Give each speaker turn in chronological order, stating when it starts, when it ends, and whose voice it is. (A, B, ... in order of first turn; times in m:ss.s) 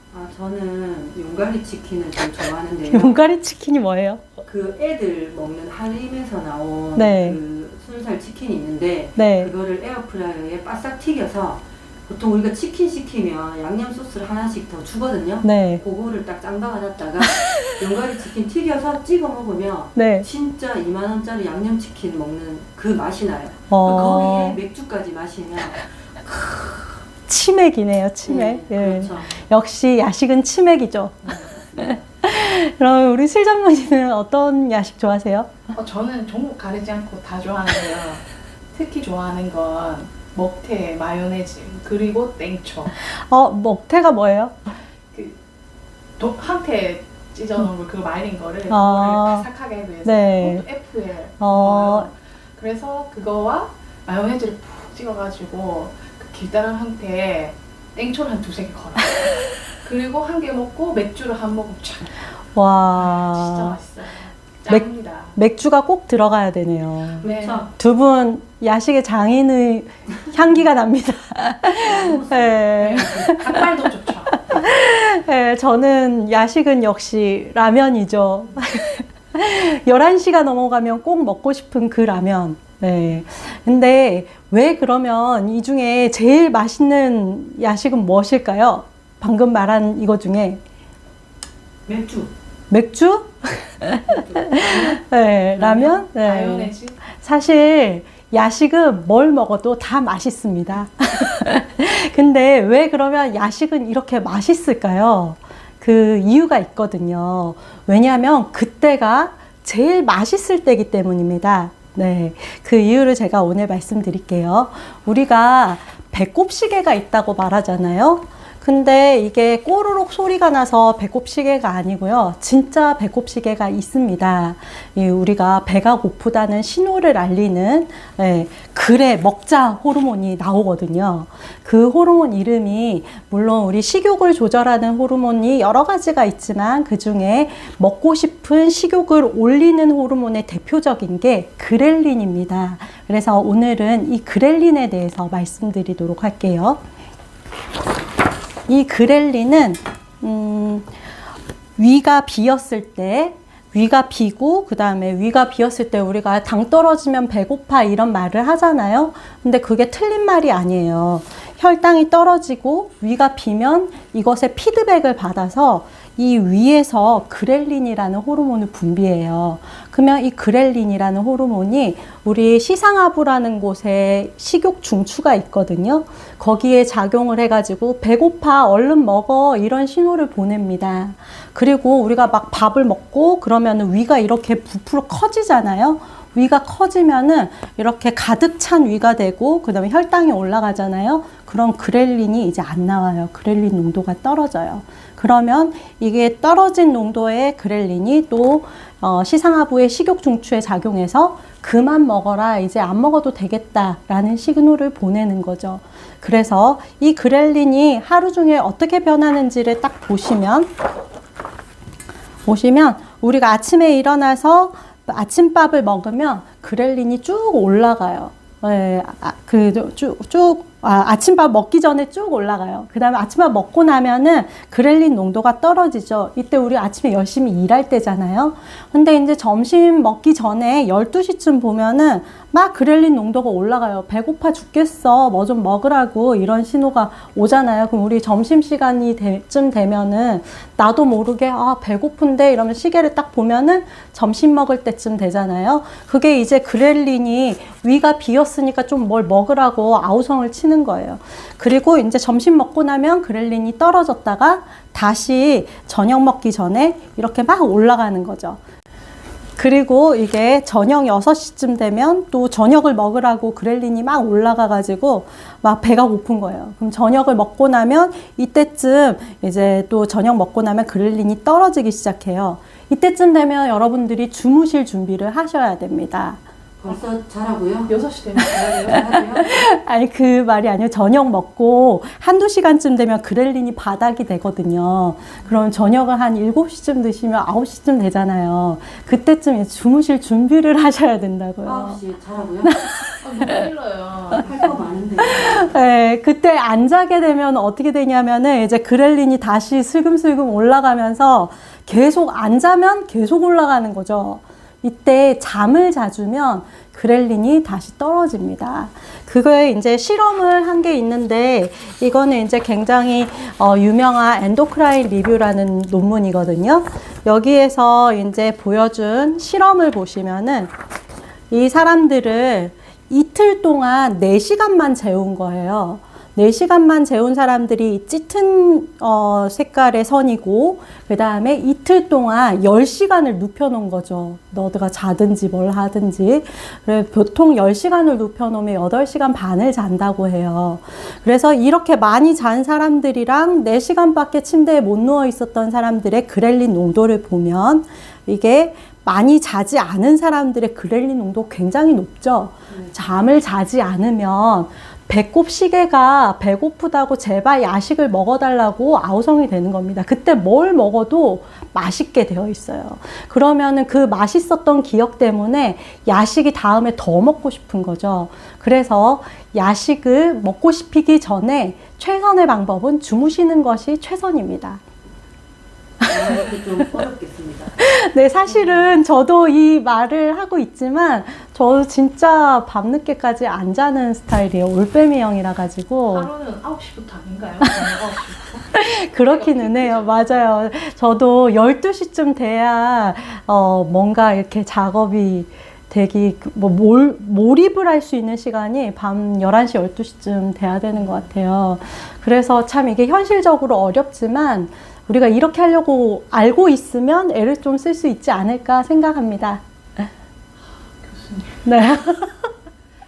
0:00.1-0:03.2 A
0:02.9-0:04.3 B
0:04.4-0:25.8 A
0:07.0-0:07.4 B
0:09.2-0:09.5 B
0:15.4-0:15.8 B
0:20.0-0:20.3 B
0:23.7-0:24.6 B
0:27.3-0:35.6 B
0:28.2-0:29.4 A
0:31.6-0:32.0 A
0:35.7-0:42.9 C
0:42.9-0:44.7 B
0:46.2-1:02.2 C
0:48.7-0:49.5 B
0:50.0-0:50.6 B
0:51.4-0:52.1 B
1:02.6-1:03.8 B
1:03.0-1:05.4 C
1:04.7-1:13.7 B
1:07.2-1:07.7 A
1:07.2-1:07.7 C
1:11.8-1:13.3 A
1:12.9-1:14.6 C
1:14.3-1:30.6 B
1:31.9-1:32.3 A
1:32.7-2:26.8 B
1:34.1-1:35.0 A
1:35.6-1:37.0 C
2:28.7-2:30.9 B
2:31.8-3:30.7 B
3:32.5-4:18.6 B
4:19.6-4:36.4 B
4:36.8-4:37.9 A
4:37.9-4:39.1 C
4:38.4-4:52.0 B
4:38.8-4:39.6 A
4:51.6-4:52.8 A
4:52.6-4:53.7 B
4:53.2-4:55.0 C
4:54.4-4:55.7 A
4:55.2-5:20.7 B
5:21.5-6:14.8 B
6:16.0-6:16.4 B
6:16.1-6:17.8 A
6:17.8-6:26.3 B
6:26.1-6:30.4 C
6:28.7-6:50.1 B
6:40.9-6:41.3 C
6:51.0-6:51.7 C
6:51.6-6:52.5 B